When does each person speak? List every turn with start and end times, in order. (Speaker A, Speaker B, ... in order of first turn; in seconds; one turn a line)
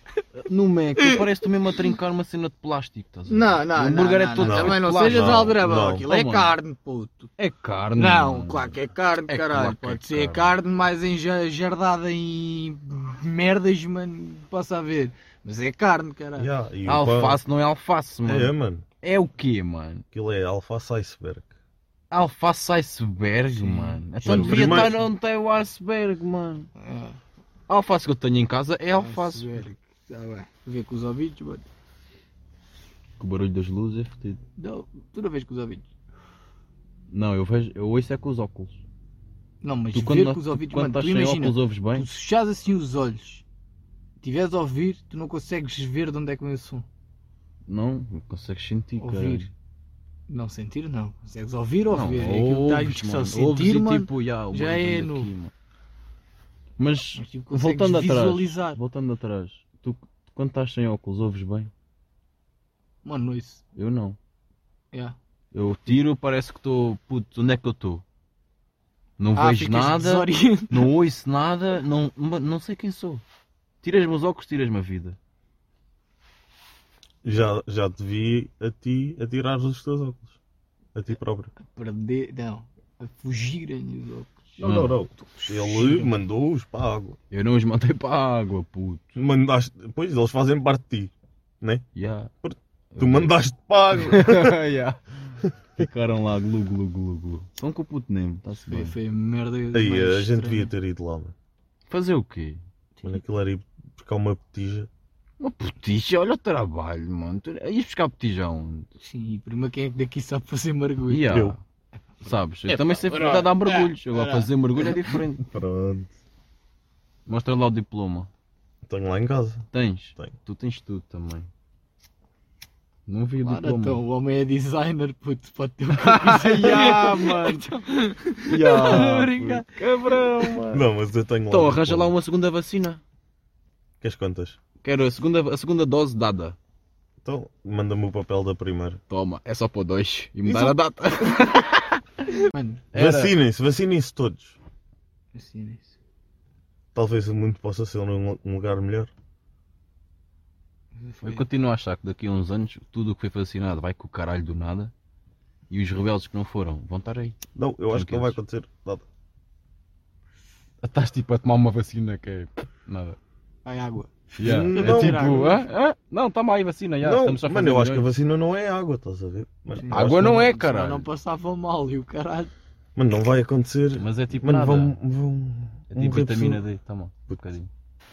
Speaker A: 0.4-6.5
Speaker B: 1.0-1.3
Speaker B: 3.3-7.3
Speaker C: 4.4-6.1
Speaker A: 7.4-10.6
Speaker B: 8.0-16.5
Speaker C: 16.4-17.4
Speaker A: 16.9-20.0
Speaker C: 18.3-18.9
Speaker C: 20.1-21.5
Speaker A: 22.1-26.7
Speaker B: 23.5-25.1
Speaker C: 24.2-25.0
Speaker B: 26.8-27.2
Speaker A: 27.7-29.5
Speaker B: 29.0-31.7
Speaker A: 33.2-34.4
Speaker B: 34.6-35.9
Speaker A: 37.1-38.8
Speaker B: 39.6-43.4
Speaker A: 39.9-42.1
Speaker B: 44.2-46.9
Speaker A: 47.7-49.5
Speaker B: 49.0-49.5
Speaker B: 50.3-55.3
Speaker A: 51.9-55.5
Speaker A: 56.8-61.7
Speaker B: 57.1-58.8
Speaker B: 63.0-63.6
Speaker A: 63.8-64.2
Speaker B: 64.9-65.2
Speaker A: 65.5-68.0
Speaker A: 69.2-73.2
Speaker B: 69.3-70.9
Speaker A: 73.8-75.2
Speaker C: 77.2-80.4
Speaker C: 81.0-81.5
Speaker B: 81.6-84.6
Speaker C: 84.6-87.2
Speaker A: 84.6-85.0
Speaker B: 85.2-86.2
Speaker A: 87.3-89.0
Speaker C: 89.2-91.8
Speaker A: 91.9-92.3
Speaker C: 92.4-94.5
Speaker A: 92.9-93.3
Speaker A: 93.9-99.0
Speaker B: 98.7-100.7
Speaker C: 99.7-101.3
Speaker A: 101.9-102.6
Speaker C: 103.0-104.9
Speaker A: 105.4-108.9
Speaker B: 109.0-111.4
Speaker A: 111.1-111.6
Speaker C: 111.3-111.6
Speaker A: 112.2-115.5
Speaker B: 112.7-115.1
Speaker C: 115.5-116.1
Speaker A: 117.3-118.3
Speaker C: 118.9-120.4
Speaker A: 119.7-121.5
Speaker A: 123.1-124.0
Speaker B: 123.4-130.6
Speaker A: 125.9-127.7
Speaker A: 128.5-130.9
Speaker C: 130.7-132.1
Speaker A: 131.5-133.0
Speaker C: 134.0-134.6
Speaker A: 134.8-136.6
Speaker C: 137.2-139.0
Speaker A: 139.1-142.3
Speaker B: 142.5-142.8
Speaker A: 142.9-143.3
Speaker C: 142.9-144.6
Speaker B: 145.3-146.0
Speaker C: 146.9-149.1
Speaker B: 151.0-151.4
Speaker A: 151.2-154.9
Speaker A: 155.7-157.4
Speaker C: 157.6-159.0
Speaker A: 157.9-158.4
Speaker A: 160.8-163.2
Speaker B: 163.7-165.7
Speaker A: 164.4-168.2
Speaker C: 164.4-165.5
Speaker C: 167.0-170.5
Speaker B: 169.7-172.5
Speaker A: 169.9-171.1
Speaker C: 172.9-176.6
Speaker A: 174.0-175.0
Speaker A: 175.9-177.7